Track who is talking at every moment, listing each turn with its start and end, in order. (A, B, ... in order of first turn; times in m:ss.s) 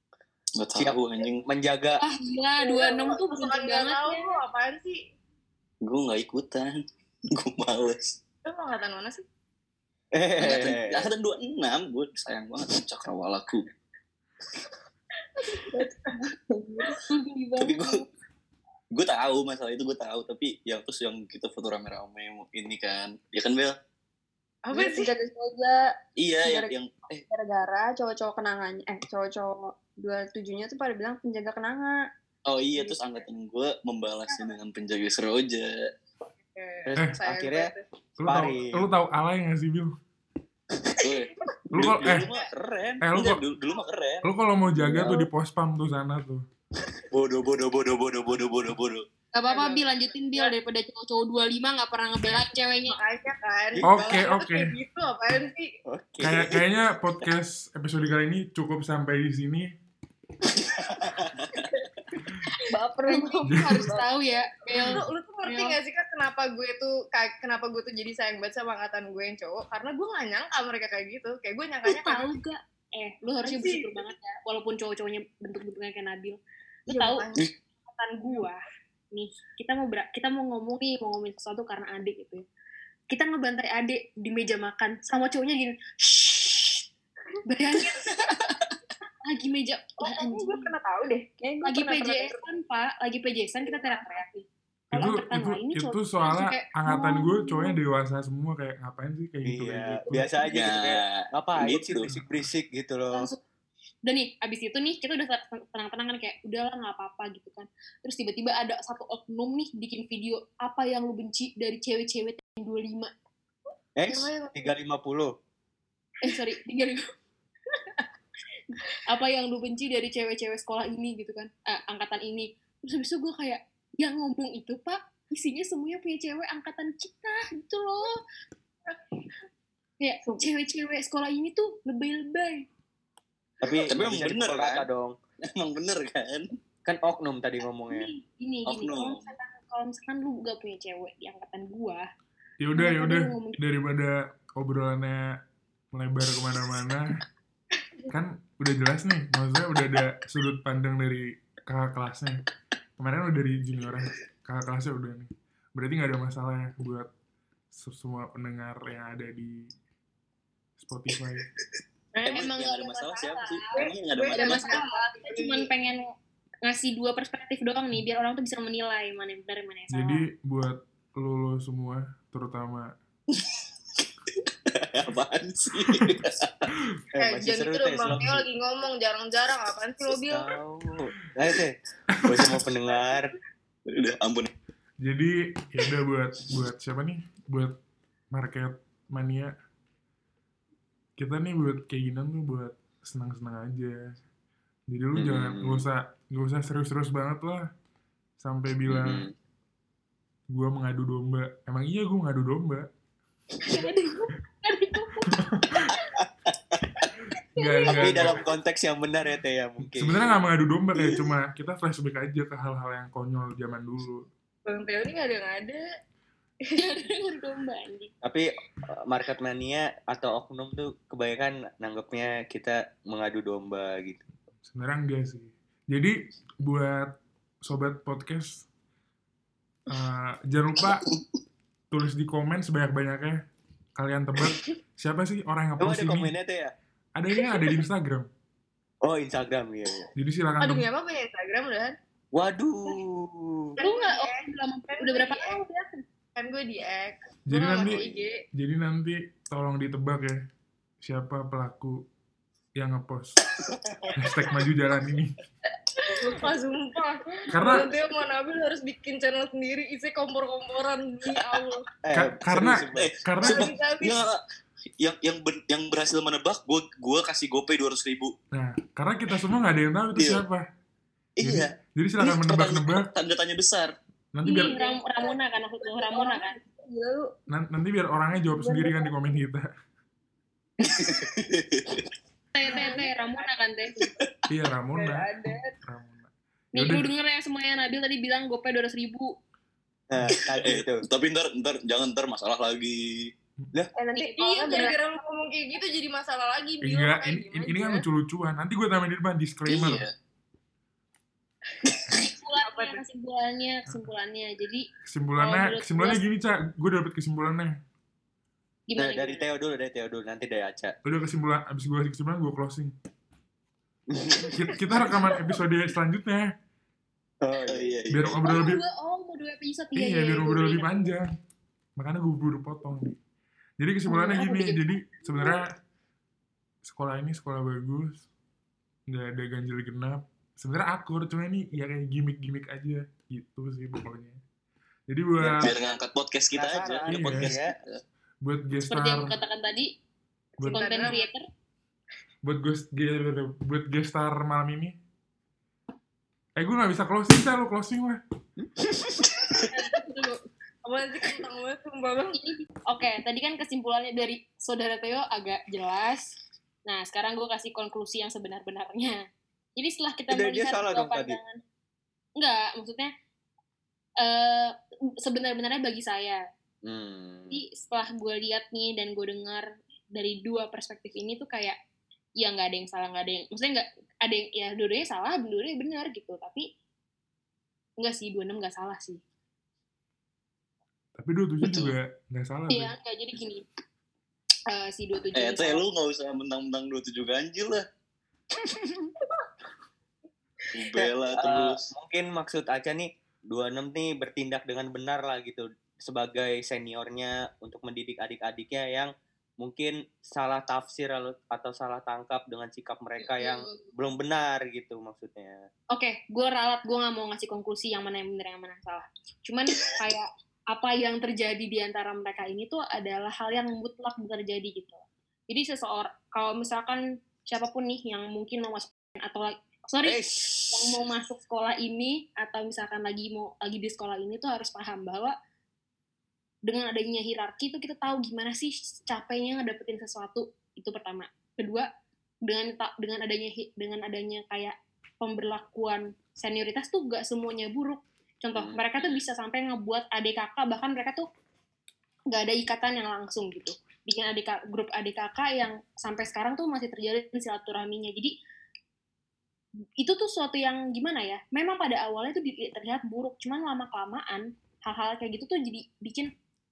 0:00.6-0:01.4 A
0:00.8-0:02.0 B
0:02.0-0:04.4 C
0:02.6-0:05.0 D
0:05.8-0:08.2 A
0:08.5-0:09.2 D
0:10.1-0:11.1 B
0:10.4-0:13.7 A
0:15.4-0:16.2 D
0:15.7-0:17.0 E
0:17.1-0:18.1 C
0:17.6-0:18.0 A
0:18.9-0:23.8 A
0:24.6-0:25.1 D
0:24.7-0:25.9 E
0:26.2-0:27.2 A
0:26.4-0:26.7 E
0:27.3-0:32.0 E
0:32.5-0:35.9 A
0:32.8-0:33.2 D
0:36.5-0:37.8 D
0:36.9-0:37.7 B
0:38.2-0:40.0 F
0:38.3-0:38.9 B
0:41.0-0:44.3 A
0:41.7-0:42.3 F
0:43.0-0:43.4 F
0:44.2-0:46.4 F
0:44.8-0:45.1 A
0:47.1-0:49.1 A
0:49.3-0:53.0 C
0:49.5-0:50.5 D
0:52.9-0:55.7 D
0:53.8-0:54.8 F
0:55.9-0:56.6 B
0:56.2-0:59.7 F
1:02.7-1:04.1 E
1:03.1-1:05.8 C
1:03.5-1:03.9 F
1:04.8-1:12.3 D
1:11.8-1:17.3 C
1:13.4-1:14.1 D
1:16.9-1:17.5 D
1:17.9-1:22.5 C
1:23.1-1:26.8 C
1:27.5-1:28.6 C
1:29.2-1:30.7 C
1:30.0-1:32.4 E
1:31.6-1:37.8 C
1:33.6-1:34.3 E
1:34.9-1:40.5 F
1:39.4-1:43.3 B
1:40.5-1:42.1 A
1:43.1-1:43.4 C
1:44.1-1:53.1 C
1:54.0-1:55.4 B
1:54.1-1:54.7 D
1:56.2-1:57.1 C
1:59.0-2:08.2 C
2:10.0-2:12.7 C
2:13.6-2:15.2 B
2:13.7-2:14.9 A
2:15.5-2:16.5 A
2:16.8-2:18.1 B
2:17.9-2:22.1 C
2:18.7-2:19.3 A
2:22.6-2:25.4 F
2:22.8-2:23.6 C
2:25.9-2:27.2 F
2:28.1-2:32.4 F
2:33.0-2:37.1 F
2:37.7-2:39.7 F
2:40.8-2:41.5 F
2:42.2-2:44.8 A
2:42.2-2:46.1 C
2:43.8-2:45.7 D
2:46.6-2:50.3 C
2:49.9-2:52.9 F
2:54.4-2:56.7 A
2:57.1-2:58.4 B
2:57.2-3:00.6 D
2:58.1-2:58.4 F
3:00.2-3:03.3 B
3:02.1-3:02.7 F
3:03.9-3:04.5 A
3:05.0-3:07.8 F
3:08.3-3:09.5 F
3:11.2-3:14.2 F
3:14.9-3:17.7 F
3:15.1-3:15.9 B
3:18.4-3:19.3 F
3:18.9-3:19.3 B
3:20.5-3:22.9 F
3:23.6-3:25.4 C
3:25.3-3:26.0 F
3:27.3-3:28.4 F
3:27.6-3:28.4 C
3:27.9-3:30.4 B
3:29.8-3:34.3 F
3:34.7-3:35.8 D
3:36.7-3:38.1 C
3:38.2-3:44.3 B
3:44.6-3:48.7 F
3:49.9-3:51.0 F
3:51.9-3:53.4 F
3:54.0-3:56.3 F
3:55.8-3:56.7 B
3:57.2-3:58.3 F
3:59.0-4:00.1 B
4:00.2-4:00.9 F
4:00.6-4:02.0 D
4:02.3-4:03.8 B
4:03.8-4:05.6 D
4:03.8-4:06.0 C
4:06.4-4:08.4 D
4:07.5-4:10.4 F
4:07.8-4:08.3 B
4:11.0-4:12.0 F
4:12.8-4:13.4 F
4:14.2-4:15.3 F
4:16.0-4:21.9 D
4:17.5-4:17.9 F
4:22.0-4:23.1 B
4:22.1-4:23.7 F
4:23.0-4:24.4 A
4:23.4-4:24.2 D
4:25.0-4:28.4 A
4:28.5-4:30.6 F
4:30.2-4:30.4 A
4:31.4-4:33.9 A
4:31.4-4:33.1 F
4:34.3-4:34.7 F
4:34.4-4:36.6 C
4:34.7-4:37.3 E
4:37.5-4:39.7 F
4:38.4-4:39.3 E
4:40.8-4:42.0 A
4:42.5-4:44.1 C
4:42.7-4:43.5 D
4:42.7-4:43.0 E
4:44.5-4:47.1 F
4:44.9-4:45.7 D
4:46.7-4:49.4 C
4:50.1-4:51.1 B
4:50.6-4:53.3 A
4:54.0-4:55.0 E
4:54.1-4:55.0 C
4:54.4-4:58.0 D
4:56.8-5:00.1 F
4:59.7-5:00.1 A
5:01.9-5:03.0 D
5:02.1-5:06.2 C
5:05.0-5:07.8 F
5:08.9-5:09.5 C
5:09.0-5:11.0 B
5:11.0-5:12.9 F
5:14.1-5:15.2 B
5:14.4-5:16.5 F
5:17.4-5:18.2 B
5:17.7-5:18.5 A
5:18.1-5:18.8 F
5:18.4-5:21.1 C
5:19.9-5:21.3 F
5:22.0-5:23.2 F
5:23.8-5:25.7 F
5:24.1-5:25.6 C
5:26.8-5:28.3 F
5:29.1-5:34.4 F
5:35.1-5:35.7 F
5:35.4-5:38.0 A
5:35.4-5:36.0 B
5:36.5-5:37.8 B
5:37.1-5:37.6 F
5:38.4-5:39.4 F
5:38.9-5:39.9 C
5:40.6-5:41.2 F
5:40.6-5:41.2 D
5:40.7-5:41.5 C
5:42.4-5:45.0 F
5:46.6-5:48.2 F
5:49.2-5:49.6 A
5:49.7-5:50.4 C
5:50.8-5:52.4 D
5:52.3-5:59.2 C
5:59.8-6:01.6 C
6:00.3-6:01.4 B
6:02.4-6:03.1 C
6:04.2-6:06.4 C
6:06.8-6:07.6 B
6:07.5-6:11.8 C
6:12.4-6:16.7 C
6:18.0-6:19.2 C
6:21.2-6:23.0 F
6:21.6-6:22.0 A
6:22.7-6:23.6 C
6:24.7-6:25.8 C
6:25.4-6:27.8 A
6:30.7-6:31.9 A
6:31.0-6:45.7 B
6:43.2-6:43.9 C
6:45.9-7:05.4 C
7:00.0-7:01.0 B
7:06.7-7:11.9 C
7:12.4-7:21.3 C
7:18.5-7:18.8 B
7:22.3-7:28.3 C
7:30.0-7:36.3 C